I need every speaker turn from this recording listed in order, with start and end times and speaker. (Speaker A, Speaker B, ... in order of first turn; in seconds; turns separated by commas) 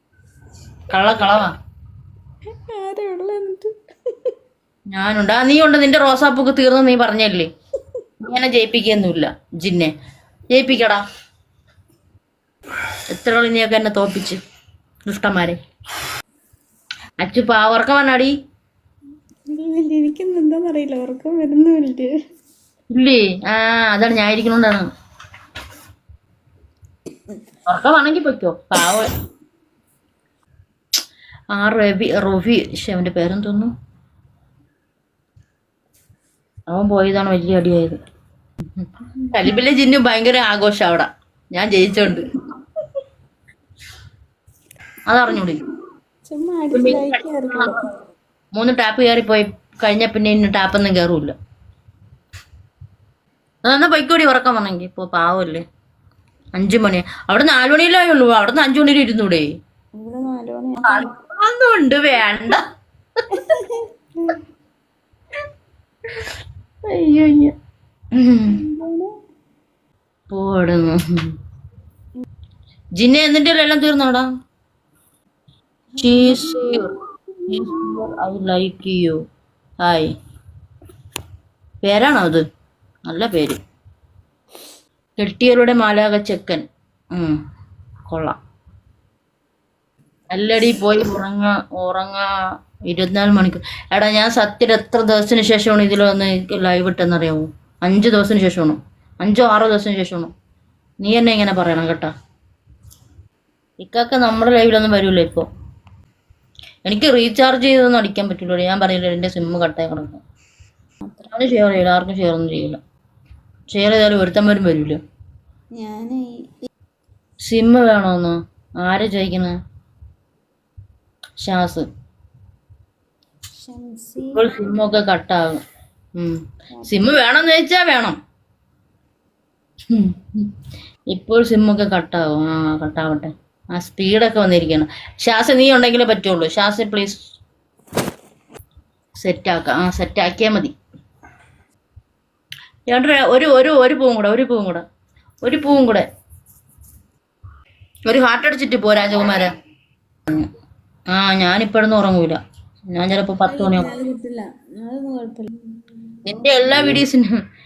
Speaker A: 0.9-1.5, Speaker B: 2.7-3.7, Speaker A: 4.9-7.5, Speaker A: 8.2-9.9, Speaker A: 10.5-11.0, Speaker A: 13.1-14.4, Speaker A: 15.1-15.6, Speaker A: 17.2-18.3, Speaker B: 19.5-22.1, Speaker A: 22.9-24.9, Speaker A: 27.7-29.1, Speaker A: 31.5-33.7, Speaker A: 36.7-38.0, Speaker A: 38.8-42.3, Speaker A: 45.1-45.6, Speaker B: 46.3-47.8, Speaker A: 46.7-47.7, Speaker A: 48.5-51.3, Speaker A: 53.6-55.6, Speaker A: 56.5-59.5, Speaker B: 60.0-61.1, Speaker A: 60.8-62.6, Speaker B: 63.3-64.4, Speaker A: 66.8-67.5, Speaker A: 68.2-68.6, Speaker B: 68.5-69.1, Speaker A: 70.3-71.3, Speaker A: 73.0-74.3, Speaker B: 76.0-76.8, Speaker A: 76.0-76.9, Speaker B: 77.4-77.9, Speaker A: 77.5-79.2, Speaker A: 79.8-80.1, Speaker A: 81.8-82.4, Speaker A: 83.1-83.6, Speaker A: 85.2-87.4, Speaker A: 88.1-88.4, Speaker A: 90.3-92.3, Speaker A: 92.9-100.3, Speaker A: 101.0-102.1, Speaker A: 103.8-105.5, Speaker A: 106.8-110.2, Speaker A: 111.2-112.8, Speaker A: 113.7-115.0, Speaker B: 115.8-116.4, Speaker A: 117.4-119.6, Speaker A: 121.4-121.9, Speaker B: 123.5-124.5, Speaker A: 124.3-125.6, Speaker A: 126.2-128.2, Speaker B: 126.8-127.1, Speaker A: 129.9-130.5, Speaker A: 131.1-137.2, Speaker A: 139.2-140.7, Speaker A: 142.9-144.8, Speaker A: 145.4-146.1, Speaker A: 148.1-149.5, Speaker A: 151.1-152.4, Speaker A: 152.9-153.9, Speaker B: 153.4-156.1, Speaker A: 156.2-157.3